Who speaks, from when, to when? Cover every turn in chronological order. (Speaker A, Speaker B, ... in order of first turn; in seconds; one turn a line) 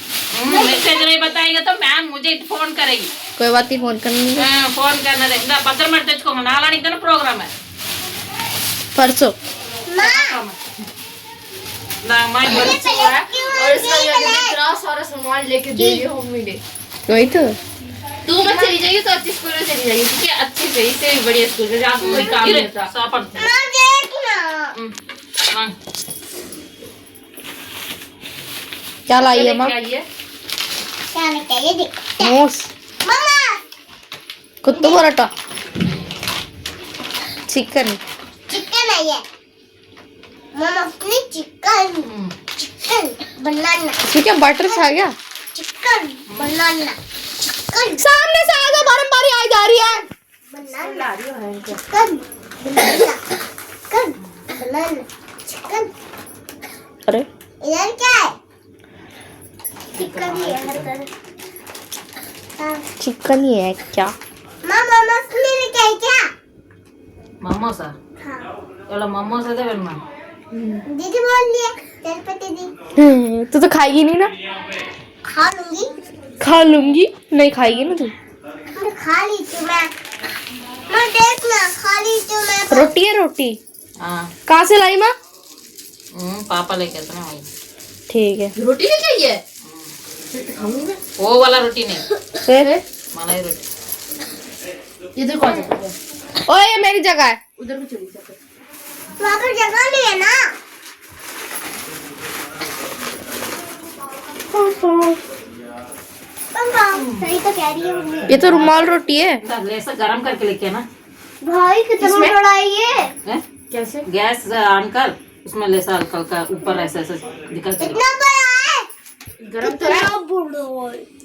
Speaker A: 0.3-3.1
Speaker B: 0.5-1.0
Speaker C: 3.4-4.4
Speaker A: 4.4-7.5
Speaker C: 8.9-9.3
Speaker B: 9.9-10.4
Speaker A: 10.0-10.6
Speaker A: 12.0-12.8
Speaker B: 12.4-14.6
Speaker D: 12.5-16.6
Speaker B: 15.7-16.0
Speaker C: 17.1-17.6
Speaker D: 18.2-22.9
Speaker A: 22.0-23.3
Speaker B: 22.1-22.6
Speaker B: 23.4-24.7
Speaker C: 29.1-29.8
Speaker D: 29.2-30.0
Speaker B: 31.1-32.3
Speaker C: 32.2-32.7
Speaker B: 33.0-33.6
Speaker C: 34.6-35.3
Speaker B: 34.8-35.0
Speaker C: 37.5-38.0
Speaker B: 38.5-39.2
Speaker B: 40.5-44.0
Speaker A: 42.0-42.3
Speaker C: 44.0-45.1
Speaker B: 45.5-47.0
Speaker A: 46.3-46.5
Speaker B: 47.7-48.9
Speaker C: 48.0-50.0
Speaker B: 50.5-51.1
Speaker D: 50.8-51.8
Speaker B: 51.9-53.2
Speaker B: 53.9-55.9
Speaker B: 57.6-58.3
Speaker A: 59.9-60.9
Speaker B: 60.0-61.1
Speaker B: 62.6-62.9
Speaker C: 63.0-64.1
Speaker B: 64.6-66.3
Speaker A: 67.4-67.9
Speaker B: 68.2-68.5
Speaker A: 68.9-70.0
Speaker B: 70.9-72.7
Speaker C: 73.0-74.3
Speaker B: 75.3-75.9
Speaker C: 76.4-78.1
Speaker B: 78.7-79.9
Speaker B: 80.9-83.0
Speaker C: 82.7-83.6
Speaker A: 84.0-84.3
Speaker C: 84.5-85.1
Speaker A: 86.1-87.5
Speaker C: 88.1-88.5
Speaker D: 88.5-89.4
Speaker A: 89.7-89.9
Speaker D: 90.3-91.0
Speaker A: 91.2-92.1
Speaker C: 92.4-92.7
Speaker A: 93.1-93.6
Speaker D: 95.2-95.9
Speaker C: 96.5-97.4
Speaker D: 97.6-98.4
Speaker B: 99.2-100.4
Speaker C: 104.5-105.2
Speaker B: 106.5-108.3
Speaker A: 106.9-107.3
Speaker A: 108.2-110.8
Speaker C: 108.3-109.4
Speaker B: 111.4-113.1
Speaker D: 112.0-112.4
Speaker D: 113.7-114.0
Speaker A: 114.0-118.0
Speaker B: 117.8-118.9
Speaker D: 119.4-120.2
Speaker B: 119.6-121.0